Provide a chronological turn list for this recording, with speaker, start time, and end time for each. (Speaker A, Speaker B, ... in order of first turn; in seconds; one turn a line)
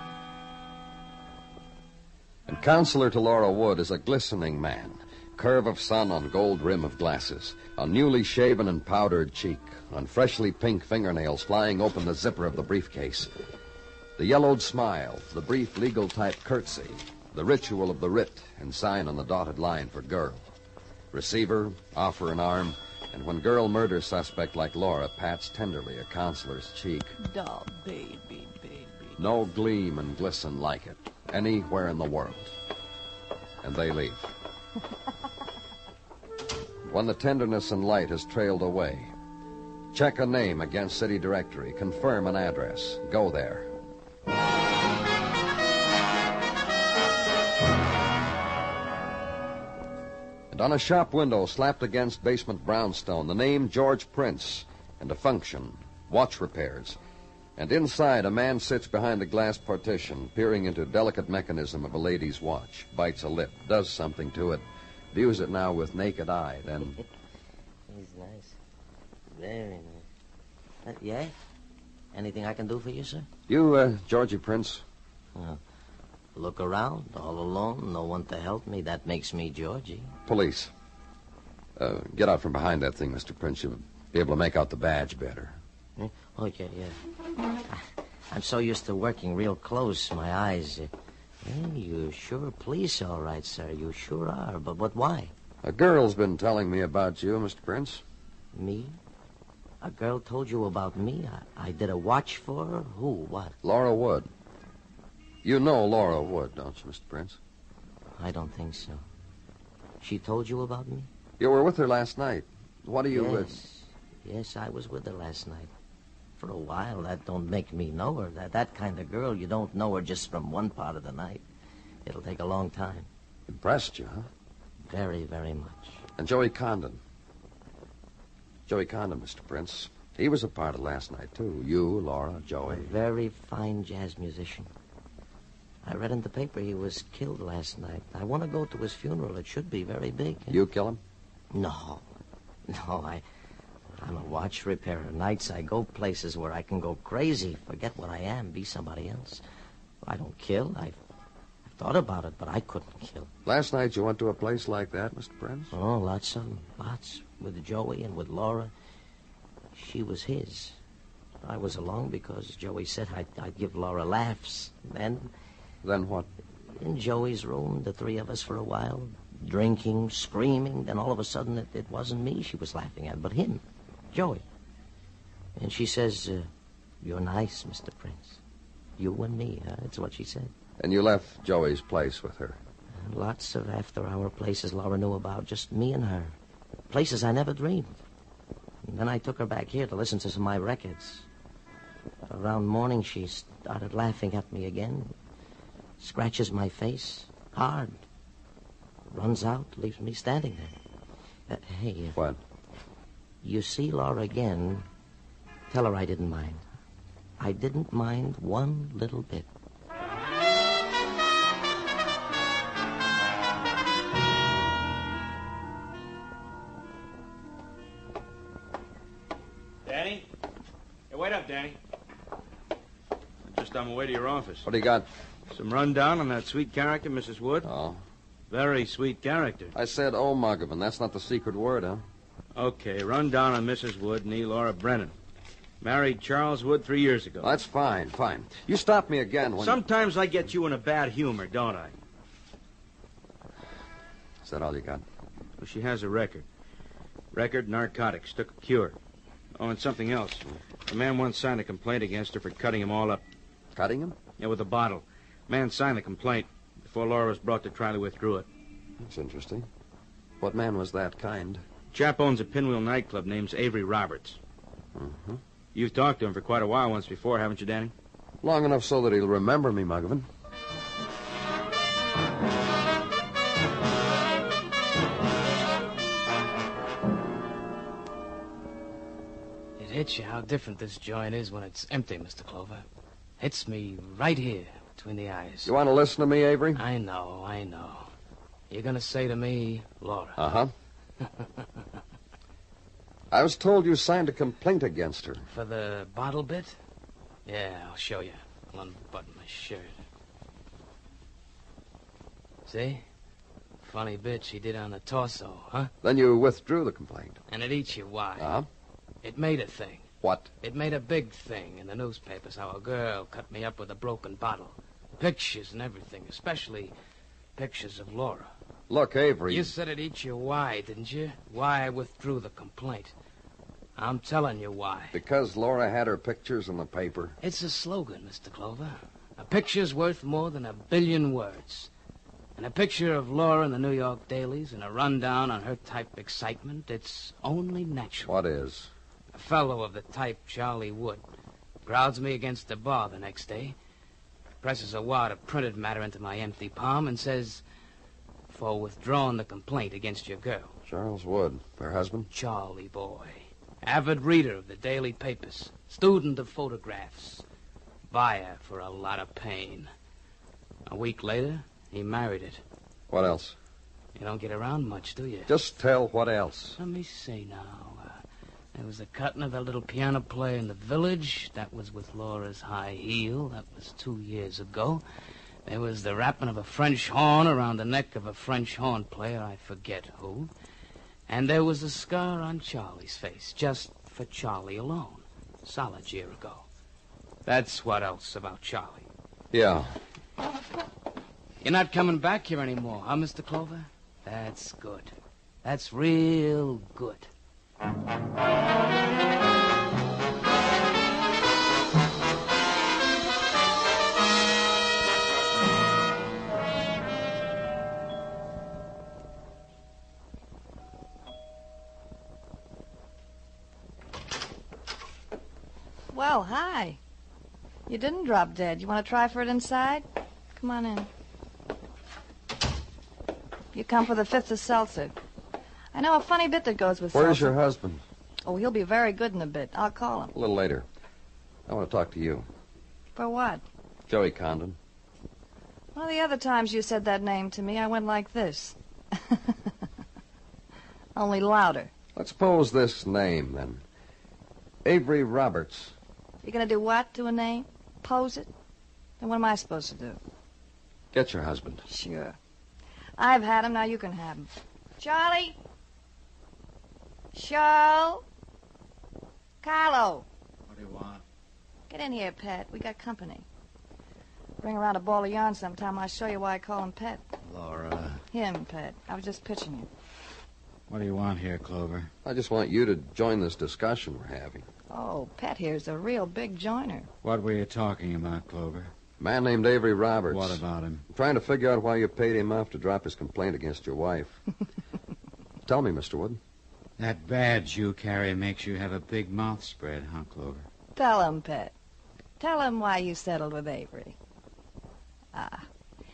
Speaker A: 2.5-13.3
Speaker A: 14.2-20.4
Speaker A: 21.1-27.2
Speaker B: 27.2-29.1
Speaker A: 29.2-32.5
Speaker A: 33.6-34.3
Speaker A: 36.9-39.1
Speaker A: 39.9-43.7
Speaker A: 50.5-57.0
Speaker A: 57.6-67.0
Speaker C: 67.9-68.6
Speaker C: 69.3-70.1
Speaker C: 70.8-71.3
Speaker C: 72.1-73.3
Speaker A: 73.5-74.8
Speaker C: 75.3-75.6
Speaker C: 76.3-80.2
Speaker A: 80.3-80.7
Speaker A: 81.8-85.6
Speaker C: 86.0-87.0
Speaker C: 87.7-90.9
Speaker C: 91.4-95.3
Speaker A: 95.6-98.0
Speaker C: 98.5-99.0
Speaker C: 99.8-103.6
Speaker A: 103.6-104.3
Speaker A: 105.4-107.4
Speaker C: 108.2-109.0
Speaker C: 110.0-111.1
Speaker A: 111.4-113.5
Speaker C: 113.1-115.7
Speaker C: 116.4-121.5
Speaker C: 122.0-123.1
Speaker A: 123.5-124.3
Speaker C: 124.9-126.0
Speaker A: 126.2-127.0
Speaker A: 128.7-133.0
Speaker C: 132.7-134.7
Speaker C: 135.8-140.6
Speaker A: 140.5-141.0
Speaker C: 141.5-142.1
Speaker C: 142.7-143.2
Speaker C: 144.0-149.4
Speaker C: 150.0-151.0
Speaker C: 151.7-153.3
Speaker A: 153.5-155.7
Speaker C: 155.7-158.7
Speaker C: 159.7-160.8
Speaker C: 161.4-165.3
Speaker A: 165.8-166.3
Speaker C: 166.7-174.4
Speaker C: 175.6-176.5
Speaker C: 177.0-178.4
Speaker C: 179.0-180.5
Speaker A: 180.8-182.6
Speaker C: 182.9-186.4
Speaker C: 186.9-188.0
Speaker C: 188.8-191.3
Speaker C: 192.2-195.2
Speaker C: 196.0-198.0
Speaker C: 199.1-200.8
Speaker C: 201.5-202.2
Speaker C: 203.4-204.9
Speaker C: 205.7-206.7
Speaker C: 207.4-209.5
Speaker D: 219.8-220.3
Speaker D: 221.1-221.8
Speaker D: 223.4-224.7
Speaker A: 224.6-225.1
Speaker D: 225.5-227.7
Speaker A: 227.7-228.0
Speaker D: 228.5-229.7
Speaker A: 229.8-232.0
Speaker D: 232.6-235.1
Speaker D: 235.8-237.5
Speaker A: 237.4-239.8
Speaker D: 239.6-241.9
Speaker A: 244.4-245.1
Speaker D: 245.6-246.5
Speaker D: 247.3-249.0
Speaker D: 249.6-253.2
Speaker A: 253.8-254.2
Speaker D: 254.4-258.5
Speaker A: 259.0-259.7
Speaker A: 260.4-261.6
Speaker D: 261.9-264.4
Speaker A: 265.0-265.4
Speaker D: 265.7-267.9
Speaker A: 268.4-270.3
Speaker E: 279.8-282.9
Speaker E: 283.4-285.7
Speaker A: 285.7-286.8
Speaker E: 286.8-288.1
Speaker E: 288.7-290.4
Speaker A: 290.4-290.7
Speaker A: 293.3-295.4
Speaker E: 295.5-296.8
Speaker E: 297.5-300.0
Speaker E: 302.7-303.1
Speaker E: 303.8-305.9
Speaker A: 306.0-307.4
Speaker E: 307.5-308.5
Speaker A: 308.4-308.7
Speaker E: 309.2-310.1
Speaker A: 310.2-310.5
Speaker E: 310.6-316.9
Speaker E: 317.6-318.5
Speaker A: 318.9-319.7
Speaker E: 319.5-323.1
Speaker E: 324.0-325.2
Speaker A: 325.1-327.4
Speaker E: 327.4-331.9
Speaker E: 332.6-338.3
Speaker A: 338.2-338.9
Speaker E: 339.3-341.2
Speaker E: 341.9-343.8
Speaker E: 344.6-347.6
Speaker E: 348.5-350.7
Speaker A: 350.9-352.3
Speaker E: 352.3-357.4
Speaker E: 358.1-359.9
Speaker E: 360.9-362.6
Speaker A: 363.1-363.6
Speaker E: 364.1-365.5
Speaker A: 365.5-366.8
Speaker E: 366.8-368.2
Speaker E: 368.7-375.0
Speaker E: 375.7-380.5
Speaker E: 381.3-386.6
Speaker E: 387.4-389.1
Speaker A: 389.5-390.0
Speaker E: 391.6-395.1
Speaker E: 395.6-397.3
Speaker B: 416.1-417.0
Speaker B: 417.9-420.1
Speaker B: 420.6-421.1
Speaker B: 423.7-425.1
Speaker B: 425.9-427.6
Speaker A: 427.1-428.0
Speaker B: 428.5-430.3
Speaker A: 430.3-430.9
Speaker A: 431.7-432.5
Speaker B: 433.2-433.6
Speaker A: 434.1-434.8
Speaker B: 435.9-439.7
Speaker B: 441.2-441.9
Speaker A: 442.1-443.8
Speaker A: 444.9-445.9
Speaker B: 446.4-448.5
Speaker B: 449.2-450.2
Speaker A: 451.1-451.8
Speaker B: 451.9-452.4
Speaker B: 453.2-455.6
Speaker B: 457.3-458.2
Speaker B: 459.6-460.3
Speaker F: 460.7-461.2
Speaker B: 461.9-463.5
Speaker B: 464.6-467.2
Speaker F: 467.5-468.2
Speaker B: 468.3-469.9
Speaker F: 470.9-472.1
Speaker A: 472.2-474.7
Speaker B: 474.9-477.1
Speaker F: 477.2-478.9
Speaker A: 479.2-484.4
Speaker F: 480.3-481.0
Speaker A: 485.6-486.4
Speaker F: 487.0-490.7
Speaker B: 490.9-491.7
Speaker B: 492.4-494.2
Speaker B: 495.3-495.7